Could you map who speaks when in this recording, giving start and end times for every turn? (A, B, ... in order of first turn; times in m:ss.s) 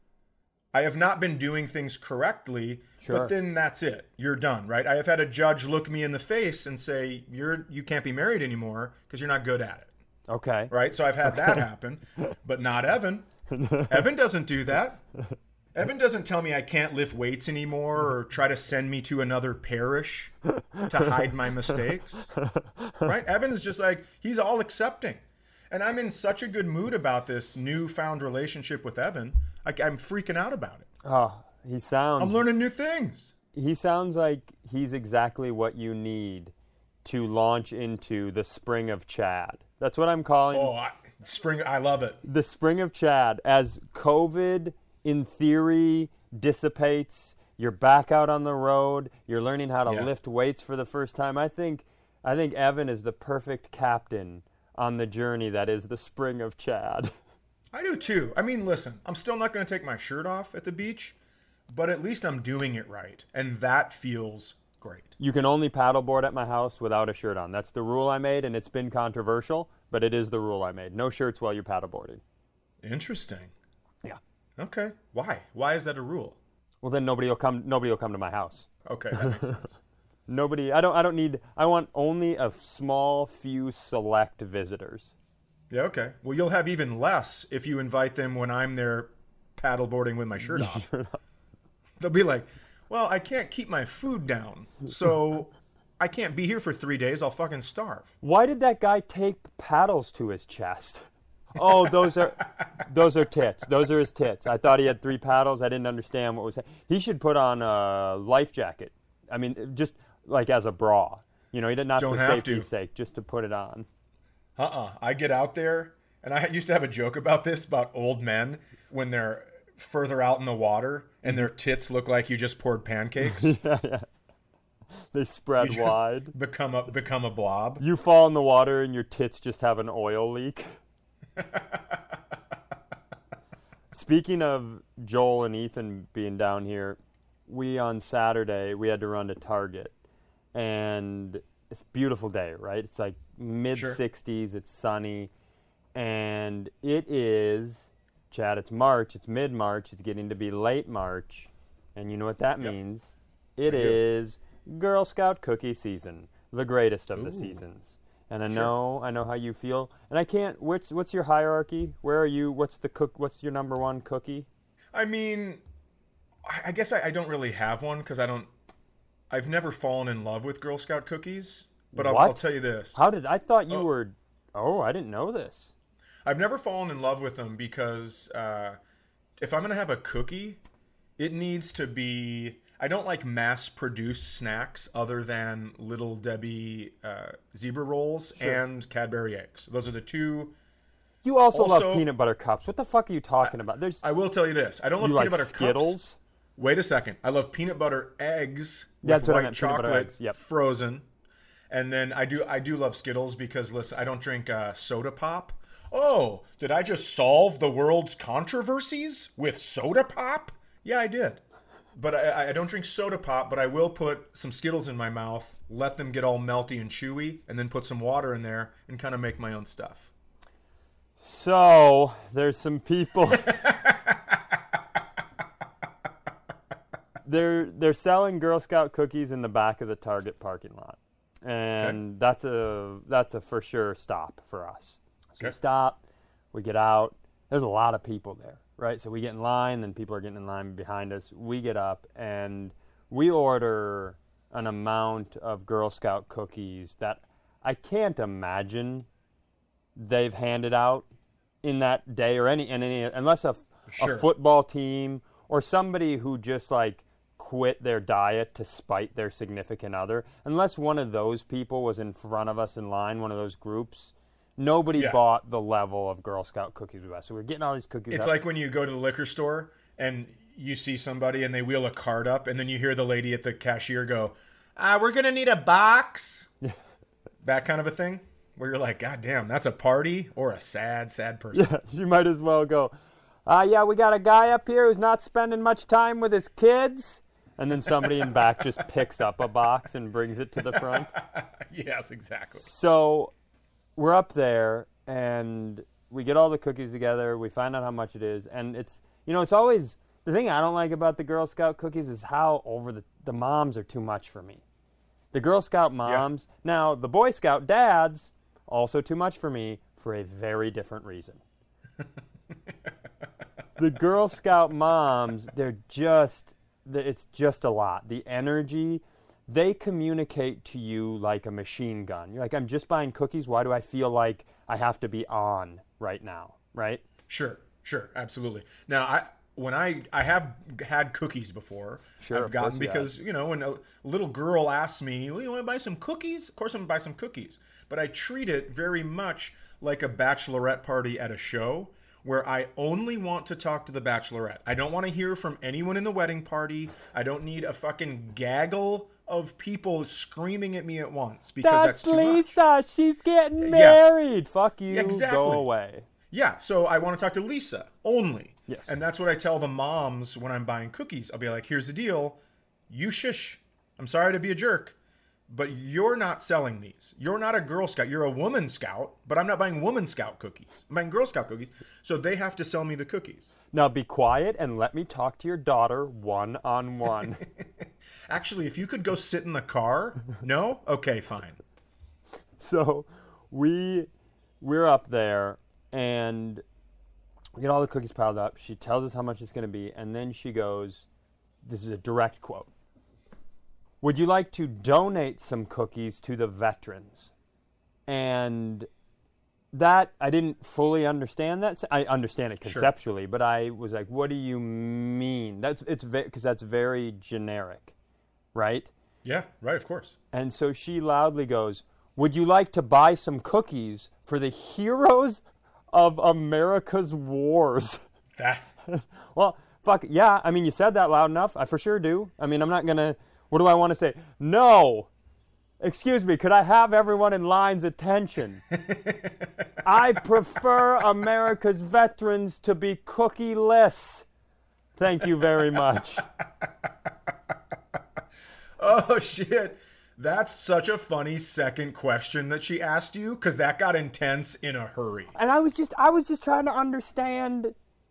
0:00.7-0:09.9 A
0:03.0-0:03.3 B
0:10.3-0:10.7 B
0:10.7-0:13.3 A
0:13.5-0:14.0 B
0:13.9-0:15.0 A
0:15.7-0:22.3 A
0:22.4-0:23.0 B
0:23.0-0:30.9 A
0:31.0-0:32.4 B
0:32.2-0:33.3 A
0:33.5-0:36.5 B
0:37.0-0:40.7 B
0:40.5-0:42.2 A
0:42.2-0:57.1 B
0:49.8-0:50.1 A
0:57.7-1:01.1 A
1:01.7-1:05.1 A
1:05.2-1:12.2 B
1:12.8-1:13.5 A
1:14.6-1:16.4 A
1:16.8-1:19.6 B
1:18.8-1:19.8 A
1:20.3-1:25.1 B
1:25.7-1:30.9 A
1:30.4-1:31.2 B
1:32.0-1:38.1 A
1:38.2-1:53.9 B
1:52.0-1:52.7 A
1:54.6-2:03.5 A
2:03.2-2:04.0 B
2:05.1-2:06.3 B
2:05.6-2:07.8 A
2:07.8-2:10.8 B
2:11.4-2:11.8 A
2:13.9-2:19.9 B
2:20.5-2:25.3 B
2:23.7-2:24.0 A
2:25.9-2:44.5 B
2:33.7-2:34.0 A
2:37.1-2:37.6 A
2:44.9-2:45.6 A
2:46.4-2:48.5 A
2:49.3-2:53.1 A
2:51.9-2:52.4 B
2:52.9-2:55.7 B
2:56.2-2:58.8 A
2:59.4-3:00.6 A
3:01.2-3:10.6 A
3:11.2-3:14.0 B
3:11.5-3:12.0 A
3:13.4-3:16.0 A
3:15.0-3:16.2 B
3:16.6-3:21.0 A
3:19.0-3:20.4 B
3:21.7-3:31.4 A
3:31.9-3:40.1 A
3:41.2-3:43.5 B
3:43.4-3:44.3 A
3:47.2-3:56.0 B
3:56.5-4:09.1 B
4:10.0-4:11.0 B
4:11.6-4:28.3 B
4:13.9-4:14.3 A
4:28.1-4:36.5 A
4:37.4-4:41.7 A
4:41.5-4:42.9 B
4:43.4-4:51.1 B
4:47.8-4:48.5 A
4:50.6-4:52.6 A
4:52.6-4:53.3 B
4:54.0-5:04.6 B
5:05.3-5:11.4 B
5:13.8-5:27.0 B
5:27.3-5:52.6 A
5:32.2-5:33.1 B
5:51.6-5:56.0 B
5:53.6-5:54.0 A
5:54.9-5:55.6 A
5:56.3-6:04.9 A
5:58.7-5:59.0 B
6:05.5-6:13.5 A
6:13.7-6:17.4 B
6:18.3-6:21.6 A
6:22.6-6:24.1 B
6:24.6-6:26.6 B
6:27.6-6:31.0 B
6:31.6-6:32.7 B
6:34.0-6:37.3 B
6:38.1-6:38.9 B
6:39.7-6:47.9 B
6:42.6-6:42.9 A
6:48.5-6:48.9 B
6:49.2-6:50.2 A
6:50.3-6:58.0 B
6:58.4-6:58.7 A
6:58.9-7:05.1 B
7:05.8-7:08.6 B
7:08.8-7:09.4 A
7:09.8-7:14.2 B
7:15.0-7:16.2 B
7:18.8-7:25.3 A
7:25.3-7:27.7 B